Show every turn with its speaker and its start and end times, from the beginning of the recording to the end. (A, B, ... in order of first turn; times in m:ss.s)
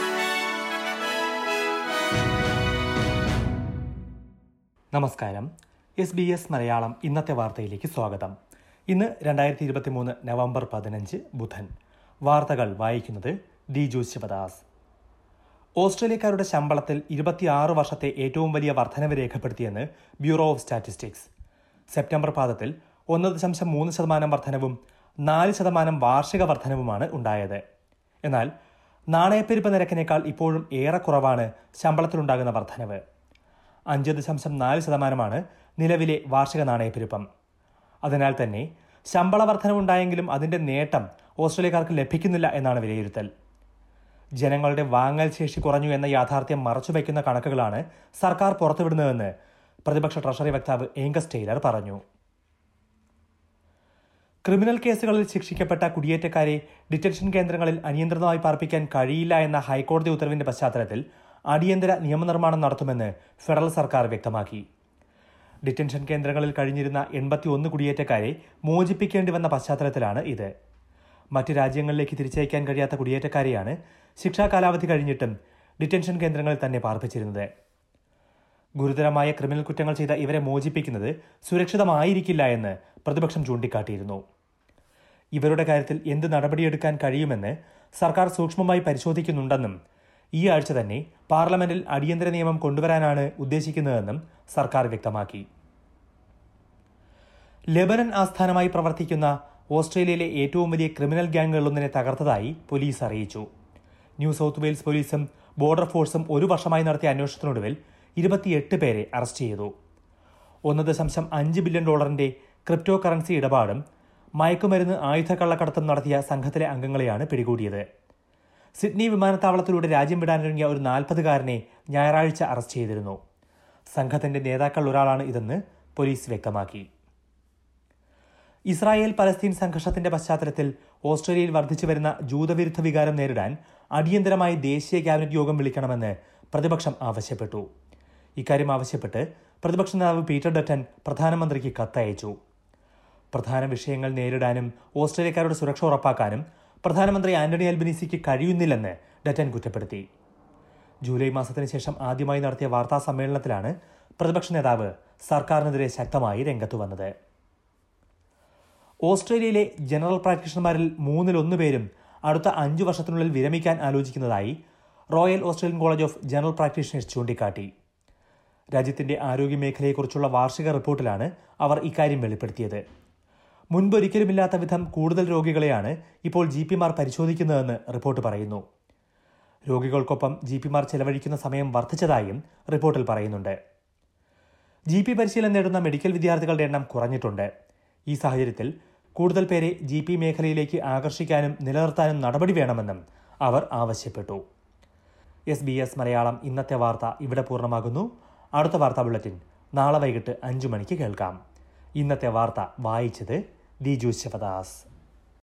0:04.9-0:05.5 A
0:06.0-0:08.3 A
0:08.9-0:11.7 A
0:12.3-0:14.6 A
0:15.8-0:21.3 A
0:21.9-0:27.6 A
0:28.2-0:28.5 A
0:29.1-0:33.0 A
0:33.9-0:37.2 A
0:38.0-0:43.3 A
0:44.4-0:49.3 A
0:49.9-0:52.0 A
0:54.4-1:04.6 A
1:05.6-1:10.5 A
1:11.3-1:17.5 A
1:18.8-1:24.2 A
1:25.4-1:29.7 A
1:30.4-1:35.4 A
1:37.8-1:43.5 A
1:44.2-1:49.7 A
1:50.7-1:53.8 A
1:54.4-1:57.8 A
1:58.8-2:03.2 A
2:03.9-2:06.9 A
2:08.7-2:17.7 A
2:18.4-2:22.3 A
2:23.3-2:30.0 A
2:31.0-2:37.1 A
2:39.1-2:44.6 A
2:45.1-2:47.7 A
2:48.7-2:52.8 A
2:53.7-2:58.6 A
2:59.7-3:03.6 A
3:04.9-3:07.5 A
3:08.1-3:14.4 A
3:15.5-3:21.4 A
3:22.0-3:24.8 A